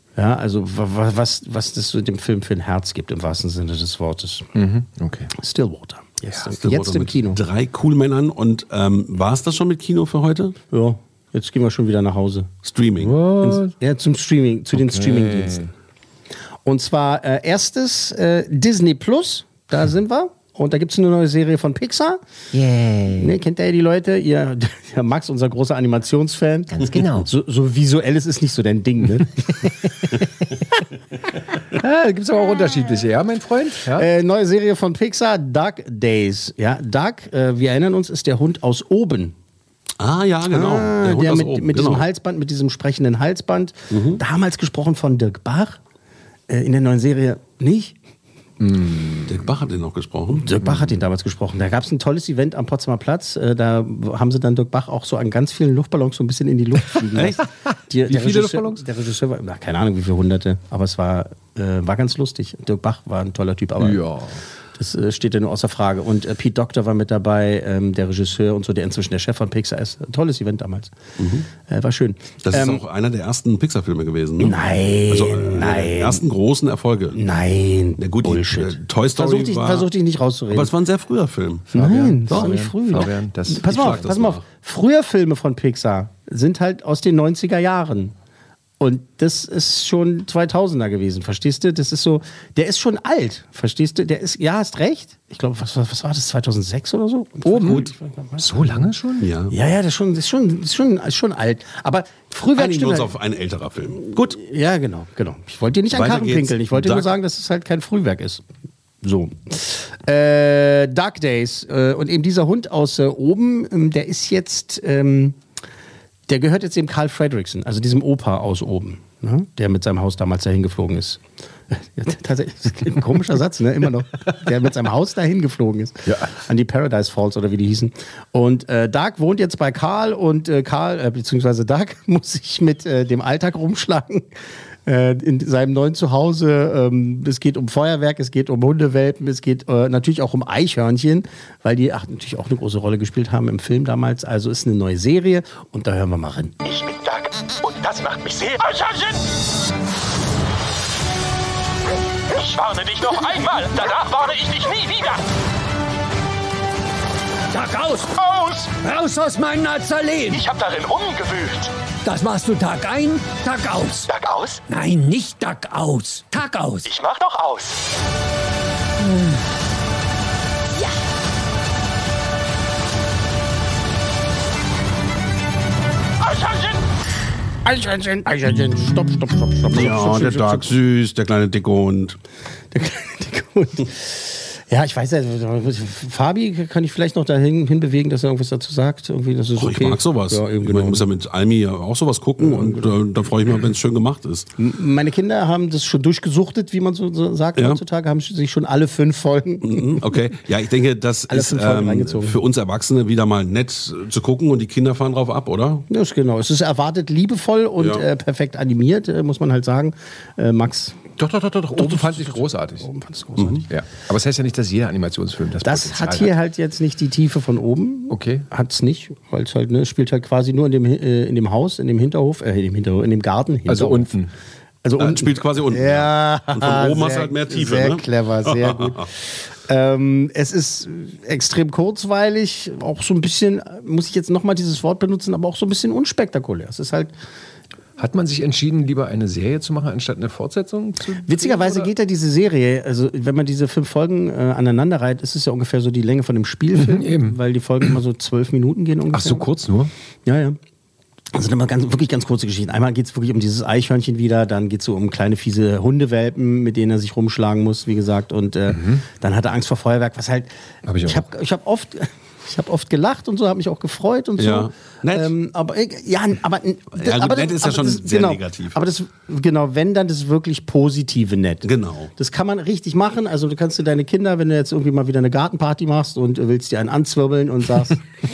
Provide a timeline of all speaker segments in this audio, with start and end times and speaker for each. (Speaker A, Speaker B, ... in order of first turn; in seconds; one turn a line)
Speaker A: 0.2-4.5
Speaker B: 4.5-5.3
Speaker A: 5.4-7.4
Speaker C: 6.6-10.6
Speaker A: 10.7-12.5
Speaker C: 12.7-13.2
Speaker B: 13.0-13.7
Speaker A: 13.4-15.7
Speaker B: 14.7-15.7
Speaker A: 16.6-22.2
Speaker B: 22.5-23.3
Speaker A: 23.2-29.7
Speaker B: 26.7-27.3
Speaker B: 31.7-34.1
Speaker A: 34.0-39.3
Speaker C: 40.0-42.1
Speaker A: 40.5-45.8
Speaker C: 43.9-44.2
Speaker A: 46.5-48.0
Speaker B: 48.6-49.4
Speaker C: 49.3-50.5
Speaker A: 50.4-64.0
Speaker C: 57.1-57.4
Speaker B: 58.1-58.8
Speaker B: 63.8-64.4
Speaker A: 64.8-70.9
Speaker C: 71.2-71.5
Speaker A: 71.6-72.8
Speaker C: 72.5-77.2
Speaker A: 74.4-76.3
Speaker A: 77.1-80.7
Speaker C: 78.0-79.9
Speaker C: 80.5-81.7
Speaker B: 81.7-84.4
Speaker A: 81.7-88.1
Speaker C: 82.3-82.5
Speaker C: 83.7-84.4
Speaker A: 88.8-98.8
Speaker B: 97.5-99.3
Speaker C: 97.6-97.9
Speaker C: 99.2-99.5
Speaker A: 99.5-103.1
Speaker C: 102.6-104.4
Speaker A: 104.3-108.4
Speaker C: 105.9-107.1
Speaker A: 109.0-115.4
Speaker A: 116.3-121.2
Speaker A: 121.7-134.3
Speaker B: 126.1-126.3
Speaker A: 134.9-146.6
Speaker D: 146.7-149.2
Speaker D: 152.3-155.2
Speaker E: 157.5-158.1
Speaker D: 158.2-158.7
Speaker E: 158.7-160.4
Speaker D: 160.3-161.7
Speaker E: 162.0-164.1
Speaker D: 164.1-164.6
Speaker E: 164.7-166.9
Speaker D: 166.9-167.7
Speaker E: 169.0-169.3
Speaker D: 176.2-176.7
Speaker A: 177.7-180.7
Speaker C: 179.7-182.2
Speaker A: 182.7-191.0
Speaker C: 189.6-194.5
Speaker A: 192.4-192.9
Speaker A: 194.6-200.0
Speaker C: 199.7-205.9
Speaker A: 201.3-202.4
Speaker A: 205.9-211.1
Speaker C: 207.8-208.1
Speaker B: 211.2-212.9
Speaker A: 211.8-213.7
Speaker C: 213.4-213.6
Speaker B: 213.7-216.3
Speaker A: 215.6-224.1
Speaker B: 218.1-218.5
Speaker B: 223.7-224.3
Speaker A: 224.8-229.1
Speaker C: 225.0-229.1
Speaker A: 229.7-237.1
Speaker B: 238.0-241.9
Speaker A: 241.3-249.5
Speaker B: 246.8-247.4
Speaker B: 249.1-249.9
Speaker A: 250.3-250.6
Speaker A: 251.3-260.5
Speaker B: 258.7-259.0
Speaker B: 260.9-261.3
Speaker A: 261.0-278.0
Speaker C: 264.4-265.3
Speaker C: 267.0-268.8
Speaker C: 271.6-272.1